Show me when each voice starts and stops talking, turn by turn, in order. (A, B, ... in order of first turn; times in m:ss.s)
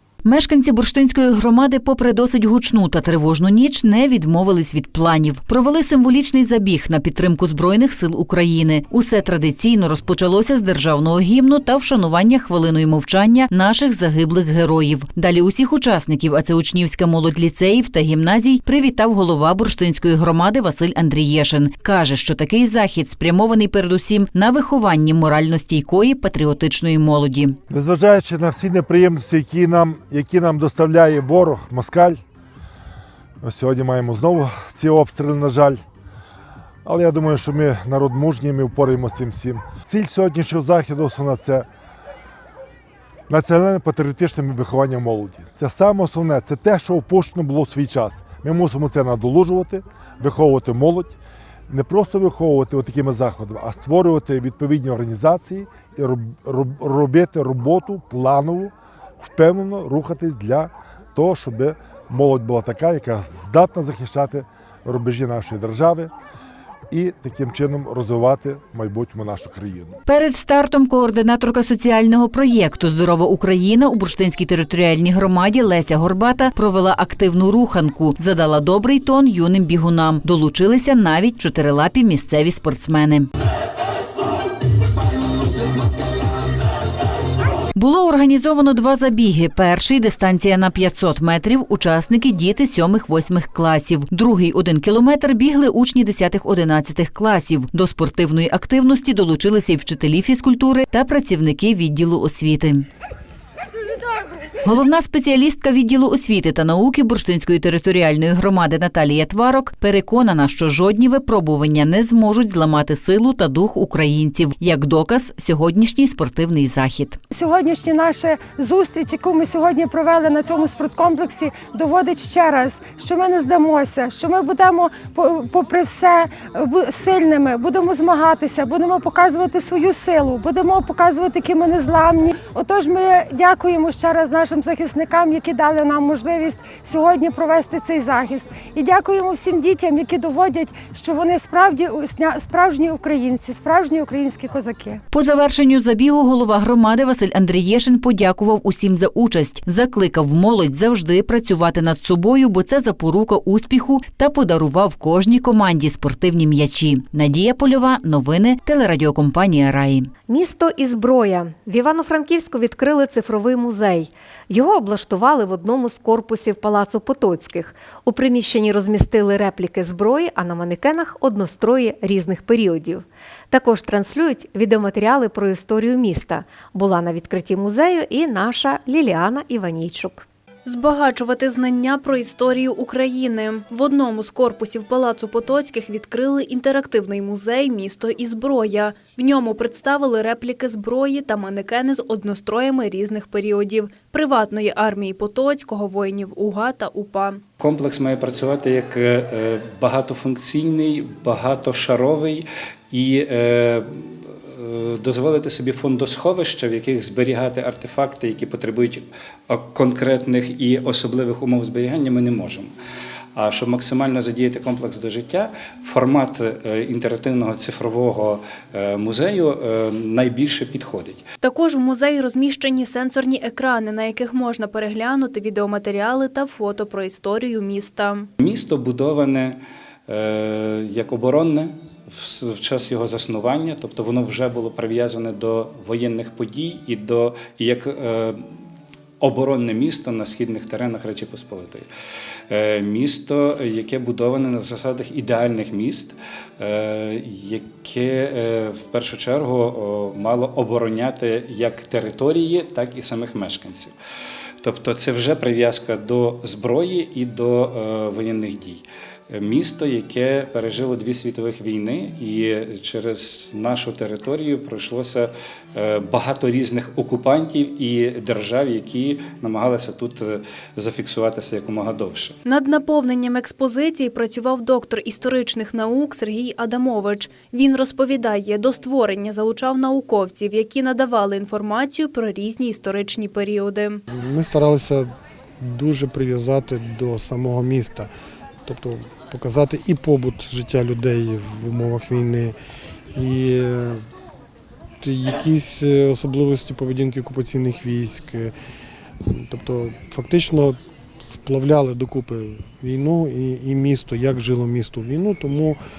0:00.2-0:27.6 A
0:27.7-0:32.2 B
0:33.4-0:35.8 B
0:36.8-0:41.7 B
0:43.3-0:51.2 B
0:51.7-1:06.1 B
1:06.9-1:10.0 B
1:10.1-1:23.3 A
1:27.8-1:42.9 A
1:44.6-1:57.2 A
1:57.3-2:25.0 C
2:25.1-2:40.1 A
2:40.3-3:00.2 D
3:00.7-3:17.4 E
3:17.6-3:32.7 F
3:33.4-3:41.2 F
3:41.4-3:48.3 E
3:48.4-3:58.5 F
3:59.2-4:01.9 F
4:02.5-4:13.9 F
4:14.6-4:32.4 F
4:32.4-4:44.0 E
4:44.1-4:48.1 G
4:48.6-4:52.6 G
4:53.1-4:54.0 G
4:55.0-4:58.5 G
4:59.3-5:05.8 G